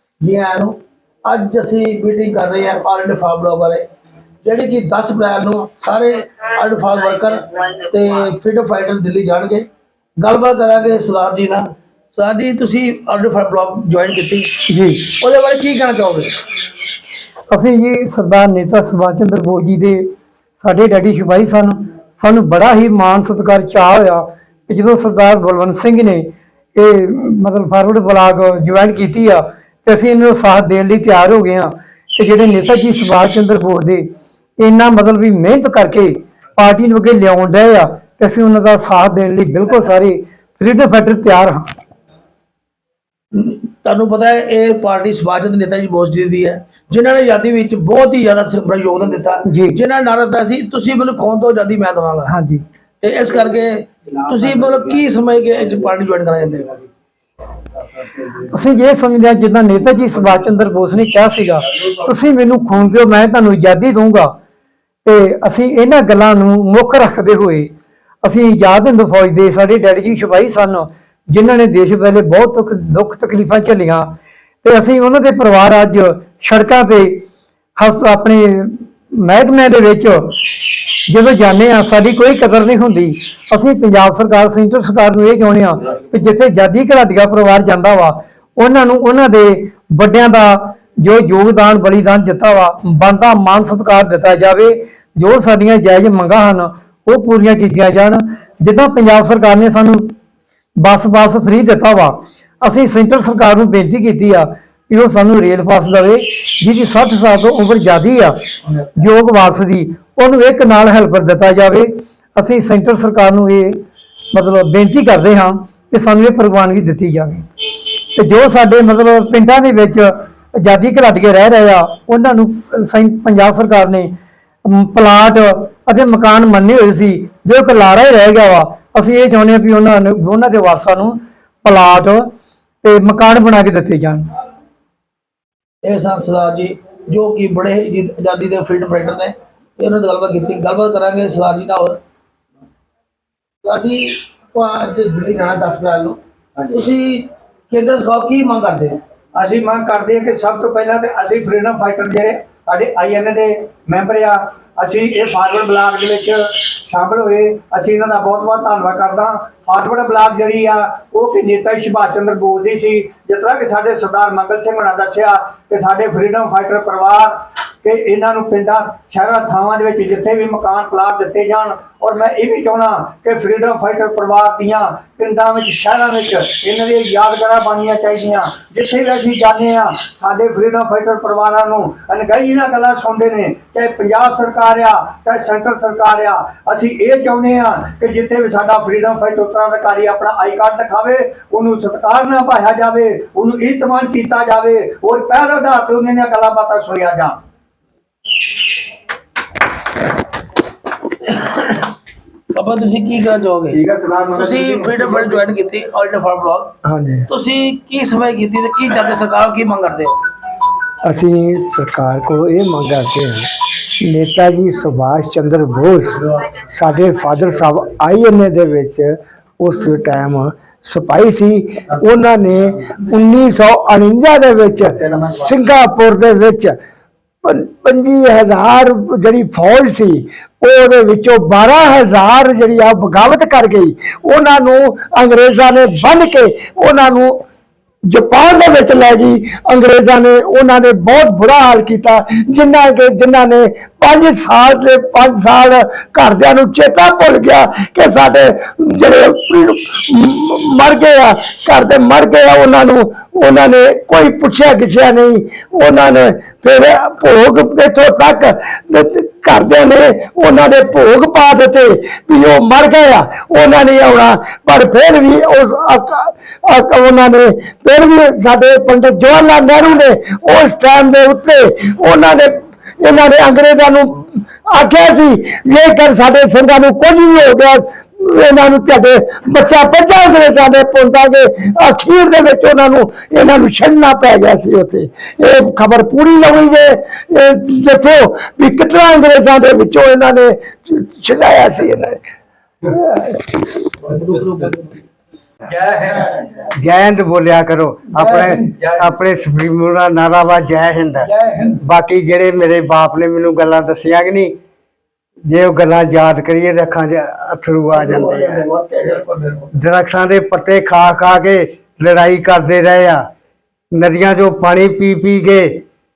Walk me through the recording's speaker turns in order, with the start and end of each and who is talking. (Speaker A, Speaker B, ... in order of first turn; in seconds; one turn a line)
Speaker A: 0.2-3.9
Speaker A: 4.4-9.7
Speaker A: 10.2-14.6
Speaker B: 14.7-15.1
Speaker A: 15.2-16.4
Speaker B: 17.5-20.1
Speaker B: 20.6-41.7
Speaker A: 43.3-52.3
Speaker B: 49.5-49.8
Speaker B: 52.3-52.6
Speaker A: 53.0-56.8
Speaker B: 58.3-64.3
Speaker B: 65.0-67.7
Speaker B: 68.2-74.1
Speaker B: 74.6-77.2
Speaker B: 77.8-100.1
Speaker B: 100.8-108.3
Speaker B: 109.0-117.5
Speaker B: 118.1-124.1
Speaker B: 124.6-132.3
Speaker B: 132.8-134.3
Speaker A: 135.8-142.0
Speaker A: 143.6-146.2
Speaker A: 146.7-149.0
Speaker C: 149.3-197.4
Speaker A: 201.3-201.9
Speaker A: 202.5-203.8
Speaker C: 203.7-205.3
Speaker A: 204.3-206.7
Speaker D: 206.8-207.3
Speaker A: 207.3-210.2
Speaker D: 211.0-213.5
Speaker D: 214.0-226.8
Speaker D: 227.4-237.4
Speaker D: 238.1-292.2
Speaker D: 292.9-293.6
Speaker A: 294.1-294.9
Speaker E: 296.8-304.5
Speaker E: 305.5-308.6
Speaker A: 308.0-309.7
Speaker E: 309.7-313.2
Speaker E: 313.9-315.8